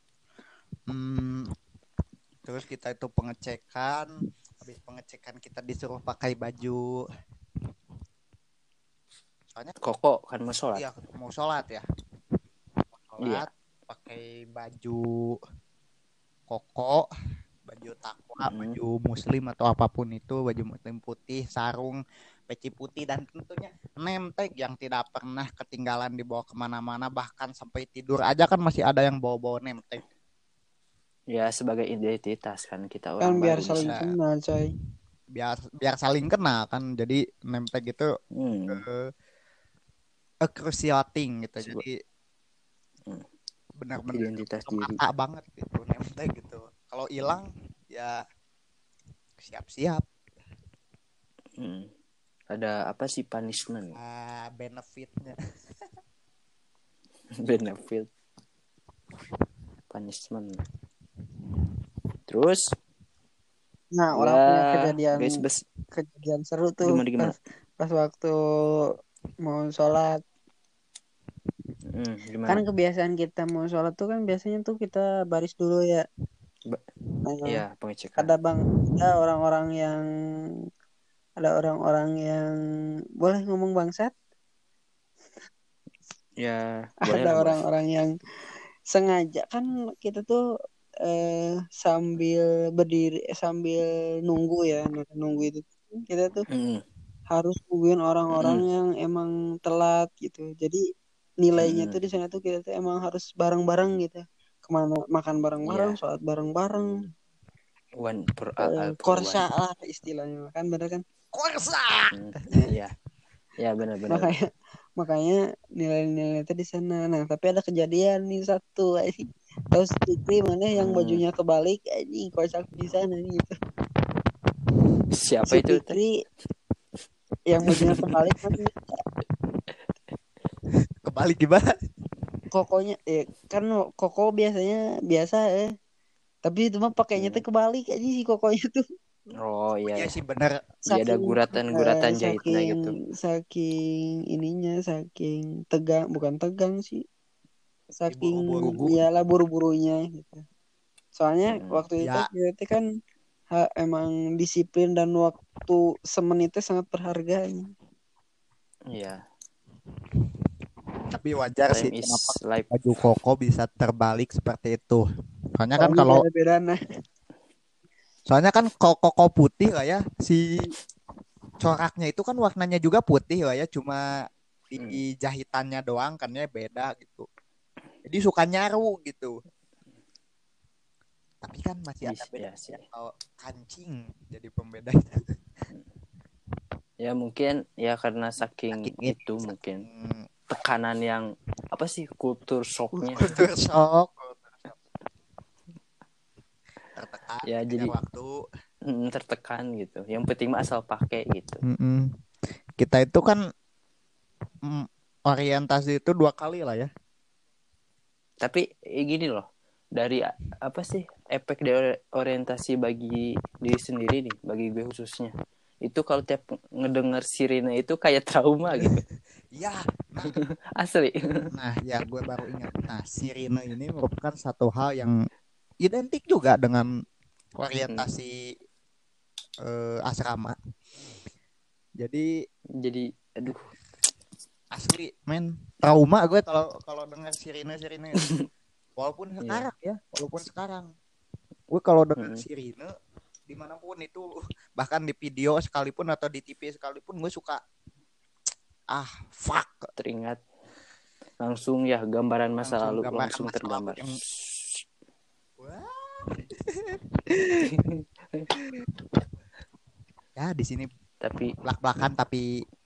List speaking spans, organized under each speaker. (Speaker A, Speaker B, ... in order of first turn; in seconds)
Speaker A: 0.9-1.5, 2.4-4.1, 4.6-6.9, 10.7-11.8, 13.1-15.3, 16.5-17.1, 17.6-30.0, 33.8-34.1, 35.3-38.1, 38.7-39.0, 40.4-42.0, 43.8-48.1, 49.4-50.1, 53.9-55.3, 111.3-112.2, 131.0-131.8, 139.9-140.6, 148.1-149.0, 152.0-152.3, 161.1-165.0, 165.6-166.2, 168.3-170.7, 171.6-174.1, 174.7-177.3, 178.0-179.3, 181.4-185.3, 188.7-190.3, 193.1-194.8, 196.9-198.3, 201.7-202.1, 202.8-203.4, 204.6-206.9, 218.7-219.0, 219.5-220.3, 221.5-225.2, 225.8-226.9, 227.6-228.4, 229.6-230.5, 232.0-232.3, 234.7-238.3, 239.0-240.9, 241.7-242.9, 243.5-247.6, 248.9-249.9, 252.6-254.2, 255.6-257.7, 260.4-260.9, 261.6-262.4
Speaker B: 9.8-10.9, 13.2-13.4, 18.4-18.8, 31.3-33.9, 38.3-38.8, 44.1-45.0, 51.6-51.9, 52.5-54.0, 57.4-58.1, 59.9-60.6, 62.3-62.6, 64.1-65.6, 66.8-67.3, 71.9-72.6, 77.4-78.3, 86.4-87.6, 96.5-96.8, 98.4-98.6, 101.6-102.0, 105.6-106.0, 108.0-109.5, 112.1-112.9, 113.6-114.3, 120.7-121.2, 125.1-126.0, 127.7-128.1, 137.2-137.4, 139.4-140.1, 140.8-142.9, 151.5-151.9, 158.9-159.2, 161.7-162.7, 182.0-182.8, 187.0-189.8, 190.5-193.4, 197.5-197.9, 198.9-201.6, 208.4-209.4, 210.0-215.3, 215.8-219.0, 220.3-221.2, 232.8-233.7, 242.2-242.4, 250.0-250.4, 251.4-254.8, 257.6-258.5, 261.2-261.5
Speaker C: 33.2-34.7, 63.9-65.3, 65.9-68.3, 69.5-70.2, 72.5-76.0, 77.2-77.6, 78.2-80.0, 81.4-82.5, 83.2-84.1, 87.0-88.1, 88.9-90.4, 91.0-96.4, 97.3-100.8, 101.4-106.9, 108.6-111.0, 114.1-114.5, 115.0-123.5, 125.5-126.1, 127.5-128.8, 132.5-135.7, 136.4-138.8, 140.9-143.7, 144.3-147.0, 148.0-150.4, 151.2-152.8, 153.5-157.7, 165.8-166.8